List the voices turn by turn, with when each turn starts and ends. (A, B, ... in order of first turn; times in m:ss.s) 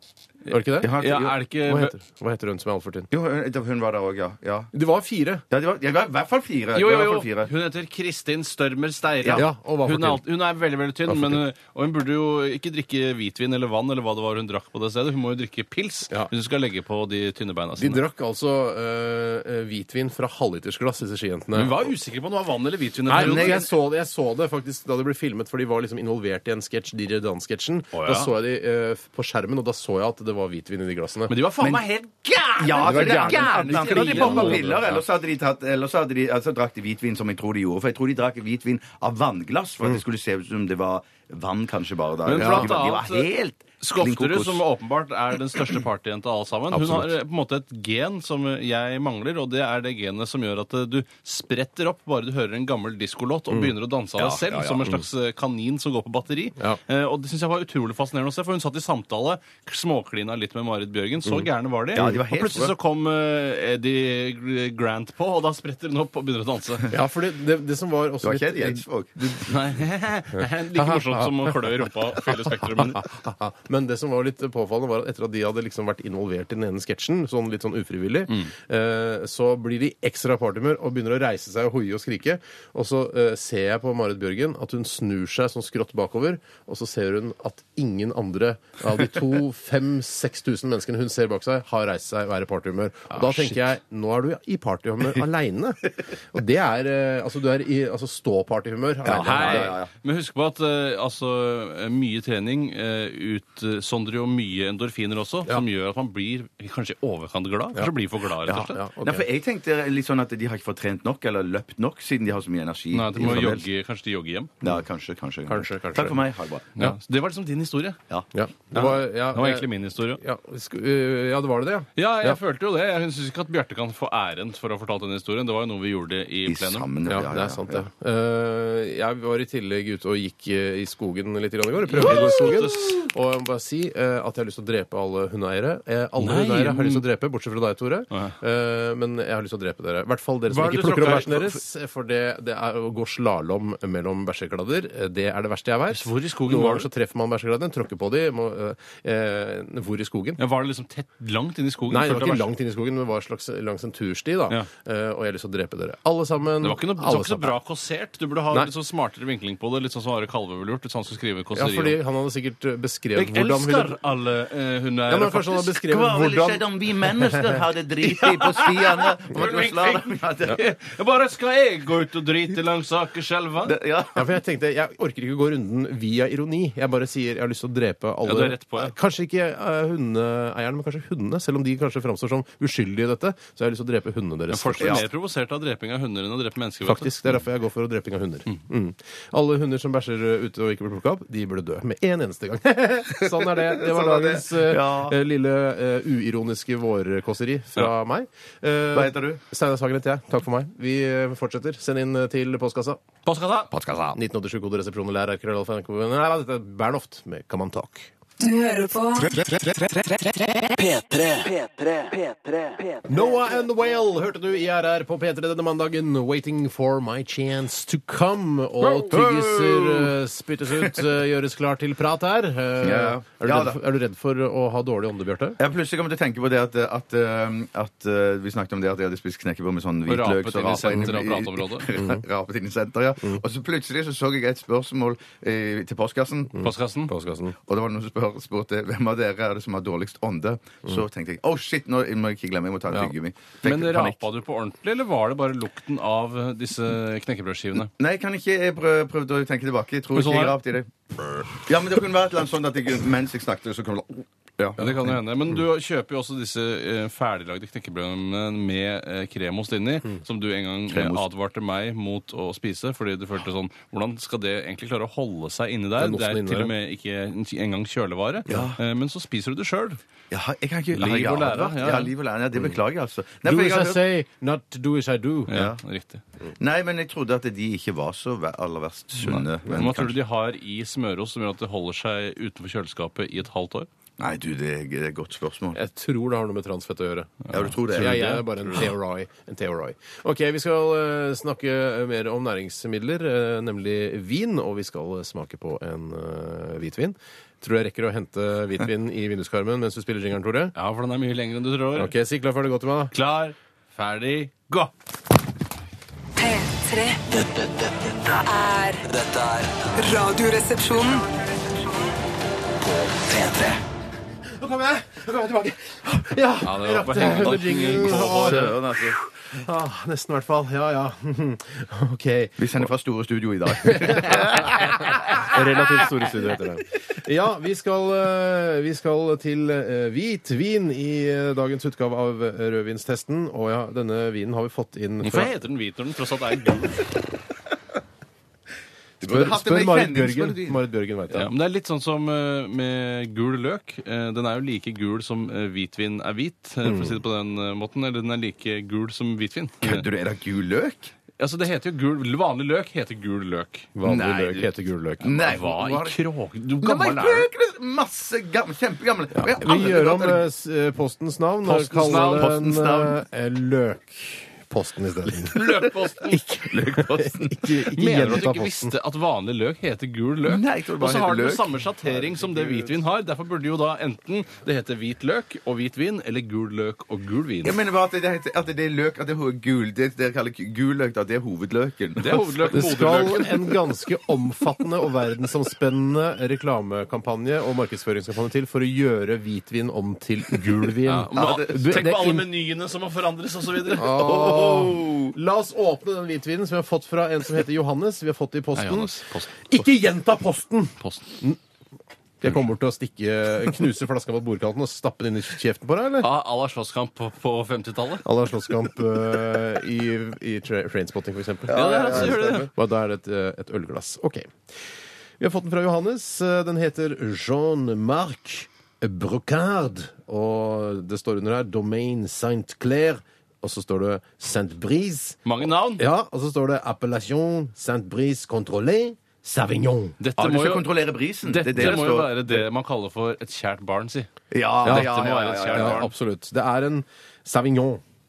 0:00.5-0:00.9 A
0:00.8-0:01.4 B
0:00.9-0:02.0 C
0:01.6-0:03.1 A
0:03.1-0:04.7 B
0:04.7-0:05.4 A
0:05.5-0:07.5 B
0:06.8-0:18.0 C
0:09.4-0:10.2 A
0:11.1-0:11.4 A
0:17.8-0:21.9 A
0:21.5-0:23.7 C
0:23.1-0:31.4 A
0:23.1-0:23.7 B
0:27.9-0:28.4 C
0:31.3-0:34.8 C
0:32.6-0:44.6 B
0:32.8-0:35.0 A
0:42.2-1:06.9 C
0:42.4-0:42.7 A
0:46.7-0:47.1 A
0:54.2-0:55.0 B
1:01.9-1:02.8 B
1:06.9-1:09.5 A
1:08.2-1:09.5 B
1:09.5-1:13.1 C
1:10.8-1:11.3 A
1:13.1-1:39.8 A
1:33.1-1:33.6 C
1:39.0-1:39.9 B
1:39.1-1:48.8 C
1:48.5-1:53.6 B
1:48.5-1:49.2 A
1:52.9-1:54.5 C
1:54.6-1:56.8 B
1:55.5-1:56.2 A
1:56.8-1:58.0 C
1:58.3-2:02.4 A
1:58.7-2:00.2 C
2:02.0-2:06.9 C
2:06.5-2:07.9 B
2:07.1-2:30.4 A
2:11.9-2:13.0 C
2:16.2-2:17.0 C
2:20.5-2:21.6 C
2:25.9-2:26.9 C
2:30.4-2:32.5 C
2:31.9-2:37.6 A
2:36.6-2:42.0 C
2:41.5-2:44.0 A
2:43.2-2:45.8 C
2:45.1-2:46.7 A
2:45.8-2:50.6 B
2:47.2-2:47.5 A
2:48.0-2:53.8 C
2:53.7-2:54.3 B
2:54.1-3:05.1 A
2:58.2-2:59.0 C
3:04.5-3:07.4 C
3:04.8-3:05.0 B
3:06.8-3:23.0 A
3:13.2-3:15.2 B
3:18.9-3:19.4 B
3:23.2-3:23.7 C
3:23.7-3:24.2 B
3:24.2-3:28.1 A
3:28.4-3:29.4 D
3:29.4-3:33.3 E
3:33.1-3:45.6 A
3:38.9-3:40.1 B
3:42.8-3:43.8 B
3:45.6-3:56.6 B
3:50.1-3:51.9 C
3:56.6-3:57.1 C
3:56.6-3:57.6 A
3:57.7-4:04.2 B
4:03.6-4:07.9 C
4:08.0-4:10.9 B
4:10.1-4:10.6 C
4:11.5-4:15.0 B
4:14.8-4:30.0 C
4:20.9-4:21.2 B
4:26.0-4:26.7 A
4:28.5-4:28.8 B
4:30.3-4:34.0 B
4:30.9-4:32.1 C
4:33.4-4:35.6 A
4:35.5-4:36.2 C
4:35.5-4:35.8 B
4:36.6-4:40.2 B
4:39.2-4:43.9 C
4:44.2-4:45.8 B
4:45.7-5:00.7 A
4:47.4-4:48.4 C
4:47.5-4:48.8 B
5:00.8-5:02.1 C
5:02.0-5:03.1 A
5:03.1-5:04.9 C
5:06.4-5:07.2 D
5:07.3-5:08.4 E
5:08.4-5:09.0 D
5:09.0-5:10.0 E
5:10.0-5:11.3 D
5:13.0-5:13.8 E
5:14.6-5:22.9 A
5:16.6-5:18.7 C
5:18.0-5:19.2 B
5:22.6-5:25.4 B
5:23.8-5:35.6 A
5:35.2-5:37.1 C
5:39.2-5:40.8 B
5:39.2-5:41.5 A
5:41.3-5:50.1 C
5:46.8-5:47.2 A
5:49.8-5:51.1 B
5:51.4-5:53.9 C
5:54.0-5:55.6 A
5:54.0-5:54.7 B
5:55.2-5:56.2 B
5:55.4-5:57.5 C
5:56.8-6:00.5 B
5:59.4-6:05.7 A
6:01.7-6:02.7 C
6:02.0-6:03.2 B
6:05.5-6:06.4 C
6:05.6-6:07.6 B
6:06.5-6:09.0 A
6:07.9-6:17.8 C
6:10.4-6:11.7 B
6:12.0-6:12.9 A
6:17.6-6:22.6 B
6:22.2-6:23.8 C
6:22.7-6:32.5 A
6:31.0-6:34.6 C
6:31.3-6:32.0 B
6:33.9-6:41.6 A
6:34.2-6:35.4 B
6:38.8-6:39.6 C
6:41.0-6:41.4 C
6:42.4-6:46.3 A
6:46.2-6:48.2 C
6:48.2-6:54.5 A
6:51.7-6:52.4 B
6:51.7-6:52.7 C
6:55.4-7:05.4 A
7:05.4-7:06.1 C
7:06.0-7:10.2 A
7:10.2-7:10.9 C
7:10.4-7:12.4 B
7:11.4-7:14.3 C
7:14.5-7:16.1 B
7:14.8-7:16.1 C
7:14.8-7:15.2 A
7:15.7-7:18.0 A